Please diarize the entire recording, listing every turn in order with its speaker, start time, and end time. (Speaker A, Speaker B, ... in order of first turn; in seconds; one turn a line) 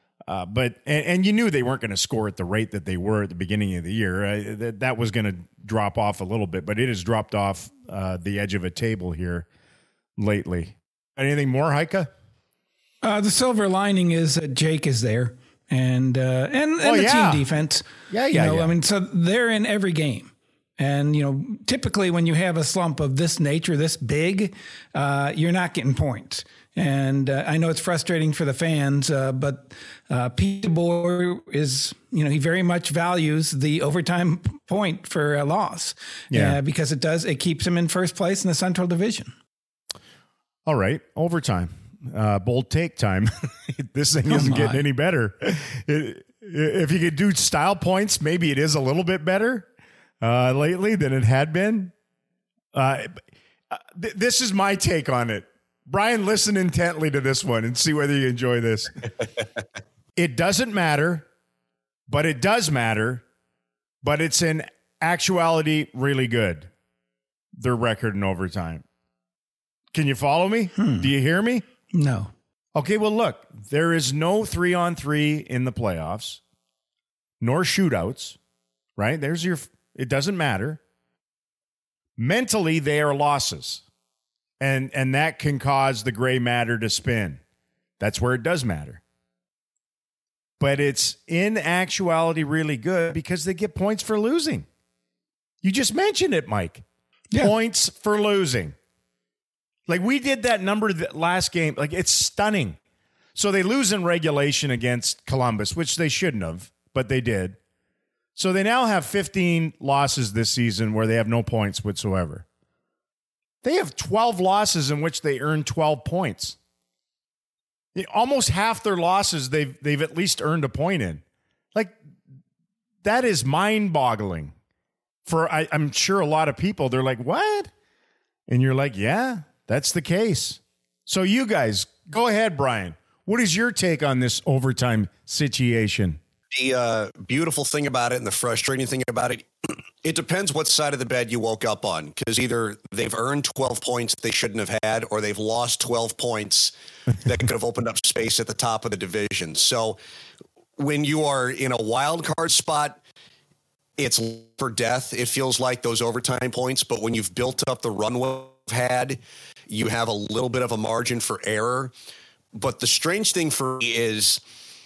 Speaker A: 0.3-9.5
Speaker A: 10.2-12.1
Speaker B: 13.0-39.3
Speaker A: 16.8-17.4
Speaker A: 18.1-18.7
Speaker A: 36.3-36.6
Speaker A: 40.6-49.7
Speaker B: 44.3-44.8
Speaker A: 50.2-51.9
Speaker A: 52.7-59.0
Speaker A: 60.1-61.3
Speaker A: 62.1-63.2
Speaker A: 64.0-66.7
Speaker A: 67.6-68.8
Speaker A: 69.9-71.6
Speaker B: 70.8-71.1
Speaker B: 71.9-72.3
Speaker A: 72.7-76.4
Speaker A: 77.4-78.4
Speaker A: 79.0-80.8
Speaker A: 82.2-83.8
Speaker A: 84.6-87.4
Speaker A: 88.0-89.0
Speaker A: 90.6-94.7
Speaker A: 95.6-98.8
Speaker A: 99.9-102.8
Speaker A: 103.3-107.6
Speaker A: 108.3-112.4
Speaker A: 113.6-116.6
Speaker A: 117.9-121.2
Speaker A: 123.0-124.5
Speaker A: 125.2-127.7
Speaker A: 128.5-136.2
Speaker C: 136.5-150.0
Speaker C: 150.8-153.0
Speaker C: 154.0-161.9
Speaker C: 162.5-164.4